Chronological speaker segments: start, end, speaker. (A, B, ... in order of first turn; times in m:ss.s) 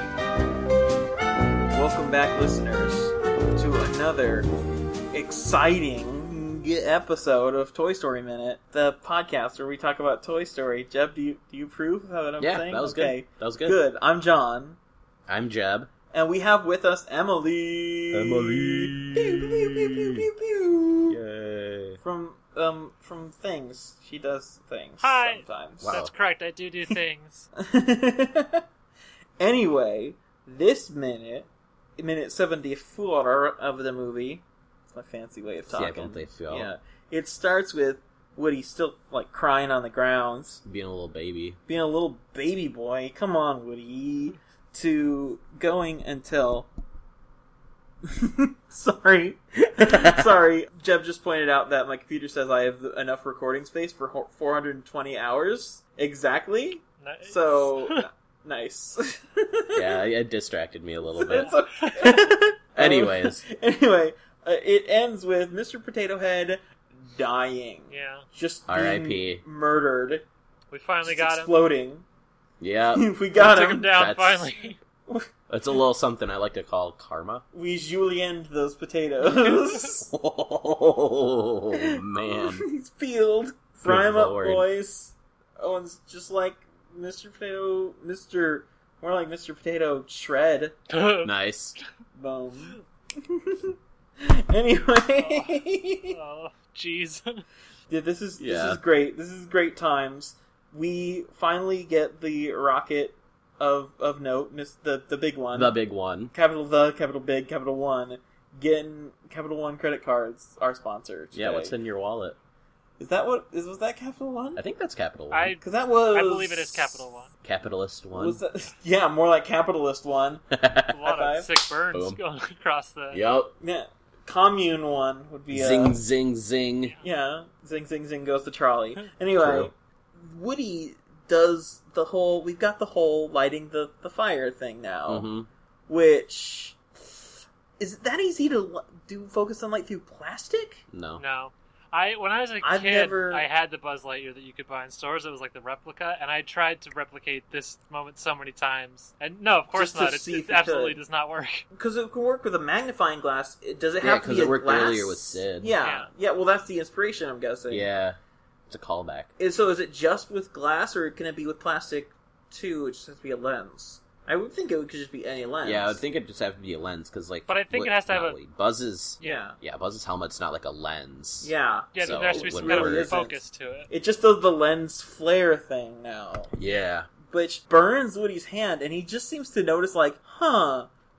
0:01.7-0:04.5 A
0:05.1-0:14.8 A
0:12.4-0:13.8 B
0:15.3-0:15.9 B
0:16.1-0:21.2 A
0:18.1-0:20.2 B
0:21.1-0:22.0 B
0:22.0-0:25.9 A
0:25.0-0:27.5 C
0:25.8-0:26.1 B
0:27.6-0:28.6 A
0:29.4-0:40.6 A
0:35.7-0:36.7 B
0:40.6-0:41.6 B
0:41.7-0:46.7 A
0:48.0-0:59.9 A
0:49.8-0:50.3 B
0:57.0-0:58.1 C
0:59.8-1:01.5 B
1:01.1-1:10.2 A
1:01.4-1:02.1 C
1:02.8-1:03.4 B
1:07.9-1:08.2 C
1:08.7-1:09.4 B
1:10.7-1:11.5 C
1:11.0-1:12.0 A
1:12.6-1:14.5 B
1:12.9-1:13.9 A
1:13.4-1:14.8 C
1:15.5-1:17.4 B
1:17.5-1:20.1 A
1:19.4-1:19.8 C
1:20.0-1:22.6 B
1:21.7-1:30.8 A
1:23.8-1:24.7 B
1:30.9-1:31.3 C
1:31.2-1:31.8 B
1:32.2-1:36.2 A
1:35.2-1:37.4 C
1:37.9-1:45.8 A
1:38.4-1:38.8 B
1:45.5-1:46.3 B
1:46.3-1:51.8 A
1:51.3-1:52.4 B
1:53.0-1:54.6 A
1:54.6-1:55.6 B
1:55.3-1:57.3 C
1:55.6-1:57.0 A
1:57.4-1:58.4 B
1:58.1-2:00.4 A
2:00.5-2:01.0 B
2:00.9-2:03.2 C
2:01.0-2:01.5 A
2:01.9-2:02.2 B
2:03.1-2:03.5 B
2:03.6-2:06.0 A
2:05.5-2:07.0 B
2:07.0-2:15.3 A
2:09.4-2:09.7 B
2:15.1-2:15.5 B
2:15.9-2:20.8 A
2:20.9-2:21.2 B
2:21.2-2:31.6 C
2:22.6-2:23.4 A
2:29.7-2:31.0 A
2:31.7-2:37.9 A
2:34.0-2:35.7 B
2:35.8-2:36.1 C
2:37.7-2:38.2 B
2:38.7-2:39.3 B
2:39.4-2:46.0 A
2:45.6-2:53.2 B
2:47.5-2:48.4 C
2:49.2-2:49.6 A
2:51.4-2:56.5 A
2:52.0-2:53.9 C
2:56.5-2:57.1 B
2:57.3-3:00.9 A